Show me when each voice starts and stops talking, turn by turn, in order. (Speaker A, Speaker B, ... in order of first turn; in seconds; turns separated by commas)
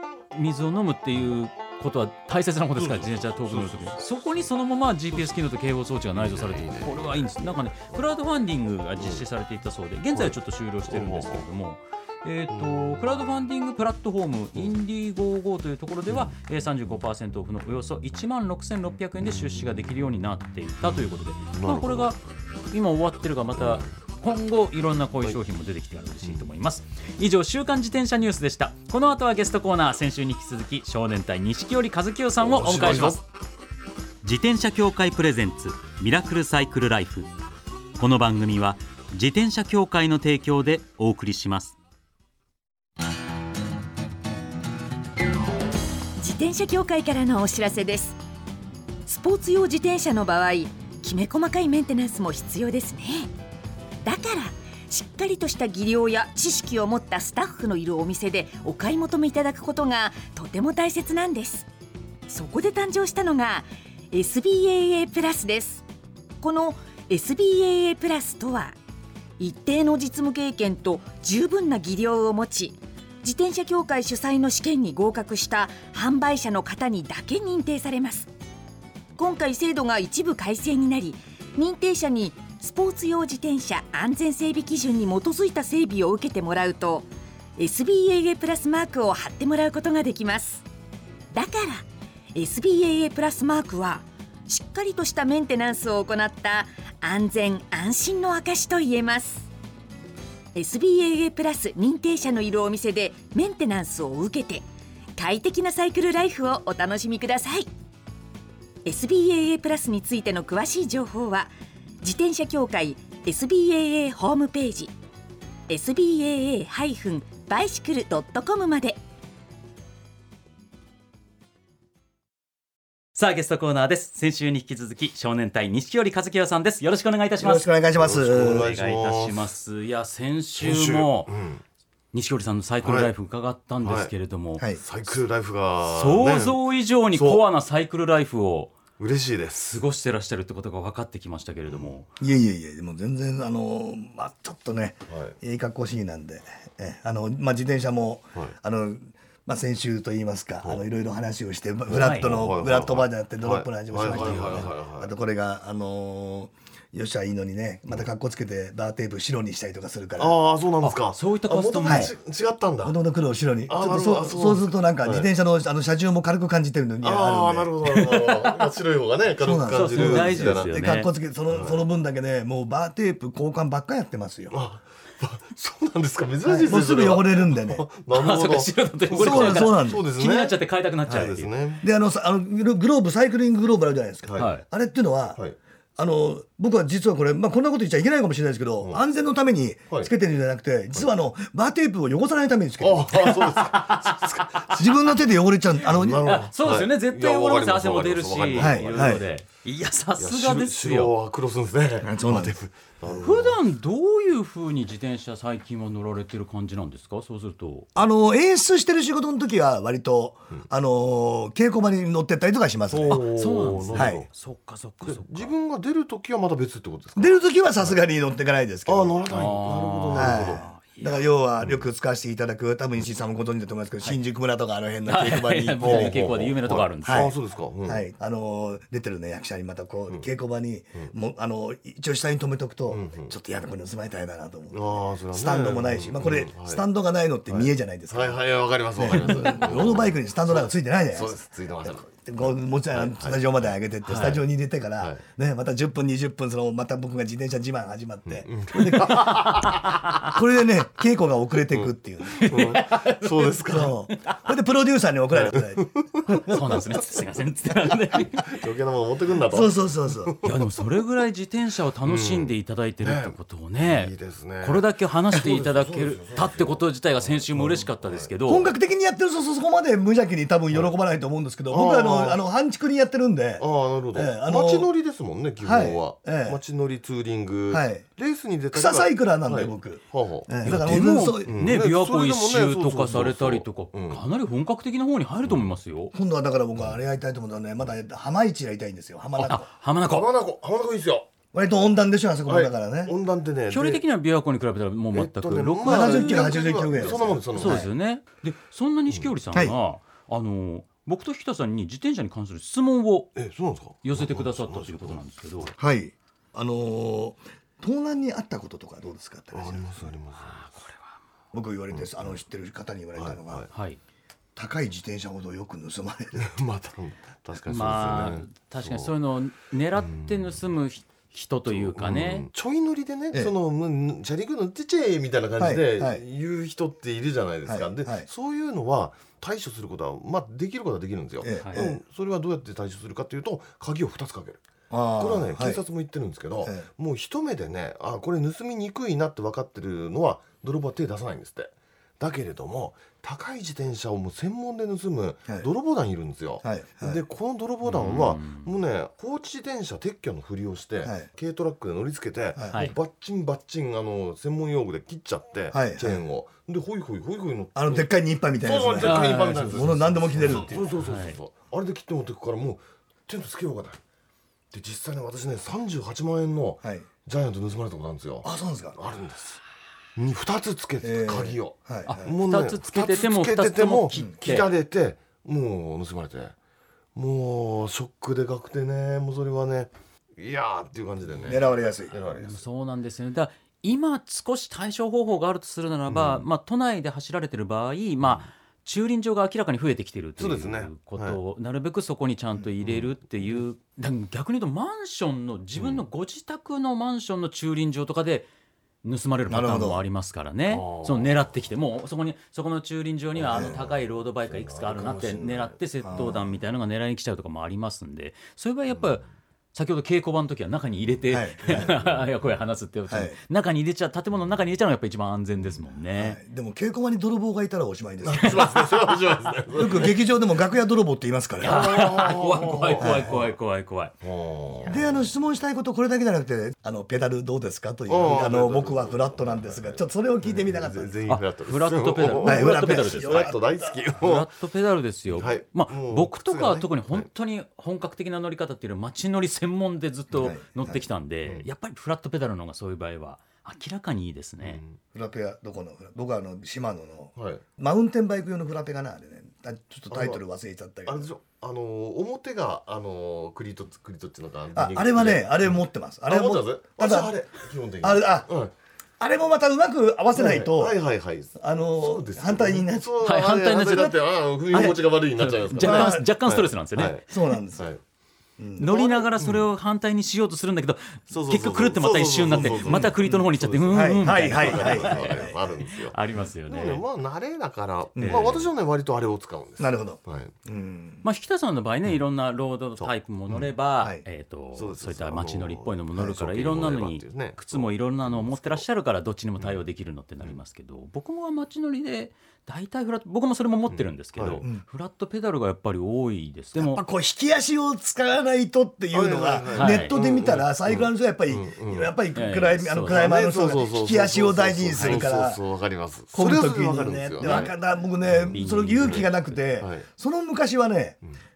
Speaker A: 0.3-22.2, Speaker B: 2.8-4.0, Speaker B: 6.1-7.3, Speaker B: 9.0-9.2, Speaker B: 10.1-11.4, Speaker B: 12.5-13.0, Speaker B: 19.2-19.5, Speaker B: 20.8-22.1, Speaker A: 22.7-33.2, Speaker B: 23.6-23.9, Speaker B: 32.4-33.2, Speaker A: 34.2-37.3, Speaker A: 38.0-41.8, Speaker C: 46.2-48.2, Speaker C: 49.0-53.3, Speaker C: 54.0-61.7, Speaker C: 62.3-65.8, Speaker C: 66.4-68.8, Speaker C: 69.4-78.3, Speaker C: 79.2-90.6, Speaker C: 91.3-99.5, Speaker C: 100.5-107.7, Speaker C: 108.8-114.9, Speaker C: 115.7-119.0, Speaker A: 123.1-127.7, Speaker D: 127.4-128.7, Speaker B: 128.0-129.4, Speaker A: 128.4-131.3, Speaker B: 130.6-131.6, Speaker A: 132.1-134.6, Speaker B: 132.8-133.1, Speaker B: 133.8-134.1, Speaker B: 134.7-136.6, Speaker A: 135.9-138.8, Speaker B: 137.1-137.4, Speaker B: 139.0-139.8, Speaker A: 139.6-142.1, Speaker B: 141.7-141.9, Speaker D: 142.2-160.3, Speaker B: 145.1-145.3, Speaker B: 151.9-155.1, Speaker A: 151.9-152.3, Speaker A: 154.1-154.7, Speaker B: 160.2-163.0, Speaker A: 160.8-162.1, Speaker D: 161.8-162.1, Speaker D: 162.8-167.7, Speaker B: 163.7-165.3, Speaker B: 167.0-170.7, Speaker D: 169.4-174.6, Speaker A: 169.7-171.1, Speaker B: 171.5-171.8, Speaker B: 174.5-181.8, Speaker D: 176.4-177.8, Speaker A: 178.1-181.5, Speaker D: 179.1-180.0, Speaker D: 181.8-185.4, Speaker B: 184.2-184.5, Speaker A: 184.4-184.6, Speaker D: 185.9-193.3, Speaker B: 192.8-195.0, Speaker A: 193.4-194.4, Speaker D: 194.7-196.3, Speaker B: 195.8-199.2, Speaker A: 196.2-201.1, Speaker D: 198.6-199.2, Speaker B: 200.2-203.6, Speaker D: 202.0-202.6, Speaker A: 203.1-207.9, Speaker D: 207.9-213.2, Speaker B: 212.9-214.3, Speaker A: 213.1-215.5, Speaker D: 213.9-214.2, Speaker B: 215.0-218.0, Speaker D: 217.2-219.2, Speaker B: 218.8-220.7, Speaker A: 219.3-221.2, Speaker D: 220.1-226.2, Speaker A: 225.1-227.3, Speaker B: 225.8-228.0, Speaker D: 227.1-227.3, Speaker D: 227.8-238.4, Speaker B: 232.9-233.3, Speaker B: 234.7-236.8, Speaker B: 237.5-243.7, Speaker D: 238.9-249.6, Speaker A: 239.3-239.5, Speaker A: 244.0-244.4, Speaker B: 248.3-249.9, Speaker A: 249.0-250.3, Speaker D: 250.2-252.5, Speaker B: 251.7-253.9, Speaker A: 252.3-253.6, Speaker D: 253.7-256.6, Speaker A: 254.1-254.4, Speaker B: 255.3-256.9, Speaker A: 256.4-258.5, Speaker B: 258.4-260.6, Speaker D: 259.5-260.3, Speaker A: 260.4-268.7, Speaker B: 262.0-268.3, Speaker D: 268.5-274.9, Speaker B: 271.7-272.4, Speaker B: 273.6-284.2, Speaker D: 275.6-276.6, Speaker D: 277.7-278.1, Speaker D: 278.7-281.6, Speaker A: 280.6-286.1, Speaker D: 286.1-289.6, Speaker A: 289.4-290.3, Speaker B: 290.0-291.3, Speaker D: 291.5-293.1, Speaker B: 292.5-294.0, Speaker A: 293.7-296.5, Speaker B: 295.1-297.9, Speaker D: 295.8-297.9, Speaker A: 297.5-303.3, Speaker B: 303.4-305.7, Speaker A: 304.0-305.7, Speaker D: 305.8-309.9, Speaker B: 309.5-310.6, Speaker A: 310.6-311.1, Speaker D: 311.5-313.6, Speaker B: 311.9-312.3, Speaker B: 313.1-313.7, Speaker A: 313.7-314.0, Speaker D: 314.6-316.4, Speaker B: 316.3-319.1, Speaker A: 317.6-322.5, Speaker B: 320.0-320.5, Speaker B: 321.7-334.6, Speaker D: 325.6-326.2, Speaker D: 327.6-328.3, Speaker D: 331.4-332.0, Speaker A: 331.6-331.8, Speaker D: 334.9-335.8, Speaker B: 335.2-364.0, Speaker D: 346.6-347.2, Speaker A: 347.8-348.7, Speaker D: 352.6-352.8, Speaker D: 355.7-356.2, Speaker D: 357.8-360.9, Speaker A: 359.0-359.9, Speaker A: 361.0-361.4, Speaker B: 364.7-369.6, Speaker D: 368.4-369.0, Speaker B: 370.1-376.5, Speaker D: 371.0-372.3, Speaker A: 372.1-374.7, Speaker B: 377.1-382.6, Speaker D: 381.4-382.1, Speaker A: 382.3-398.5, Speaker B: 386.1-386.4, Speaker B: 390.4-391.4, Speaker B: 392.8-393.6, Speaker B: 395.8-396.0, Speaker A: 399.0-416.4, Speaker D: 399.5-400.0, Speaker B: 400.7-401.5, Speaker B: 403.3-406.4, Speaker D: 406.0-406.4, Speaker D: 411.3-411.9, Speaker B: 411.7-412.2, Speaker D: 413.1-413.4, Speaker D: 416.2-418.9, Speaker B: 418.2-420.2, Speaker D: 419.7-422.1, Speaker A: 421.6-424.1, Speaker B: 421.6-423.5, Speaker D: 423.0-423.4, Speaker B: 424.2-425.2, Speaker D: 424.9-431.1, Speaker B: 428.1-434.5, Speaker A: 431.3-433.5, Speaker D: 432.3-433.9, Speaker A: 434.1-444.8, Speaker B: 435.3-437.3, Speaker D: 440.3-441.0, Speaker B: 444.6-445.0, Speaker D: 445.1-451.3, Speaker B: 447.4-447.6, Speaker B: 450.1-450.4, Speaker B: 451.1-458.7, Speaker D: 454.7-457.3, Speaker D: 458.0-458.5, Speaker D: 459.2-461.0, Speaker B: 460.3-468.0, Speaker D: 461.6-463.1, Speaker A: 463.2-464.1, Speaker D: 464.7-465.0, Speaker A: 464.7-467.2, Speaker D: 465.8-466.3, Speaker D: 467.3-467.9, Speaker D: 468.6-468.9, Speaker A: 468.8-477.0, Speaker B: 468.8-469.7, Speaker B: 471.3-480.5, Speaker D: 472.6-473.1, Speaker D: 473.9-475.6, Speaker D: 478.1-478.7, Speaker A: 478.2-478.6, Speaker D: 479.8-481.2, Speaker A: 481.2-497.0, Speaker B: 483.0-483.7, Speaker B: 484.7-488.8, Speaker B: 493.9-494.6, Speaker D: 496.8-505.6, Speaker B: 499.1-502.1, Speaker A: 499.7-500.1, Speaker A: 502.3-503.2, Speaker B: 503.1-507.7, Speaker A: 504.9-505.2, Speaker D: 506.3-511.2, Speaker A: 507.4-507.7, Speaker B: 508.3-510.1, Speaker A: 508.3-509.5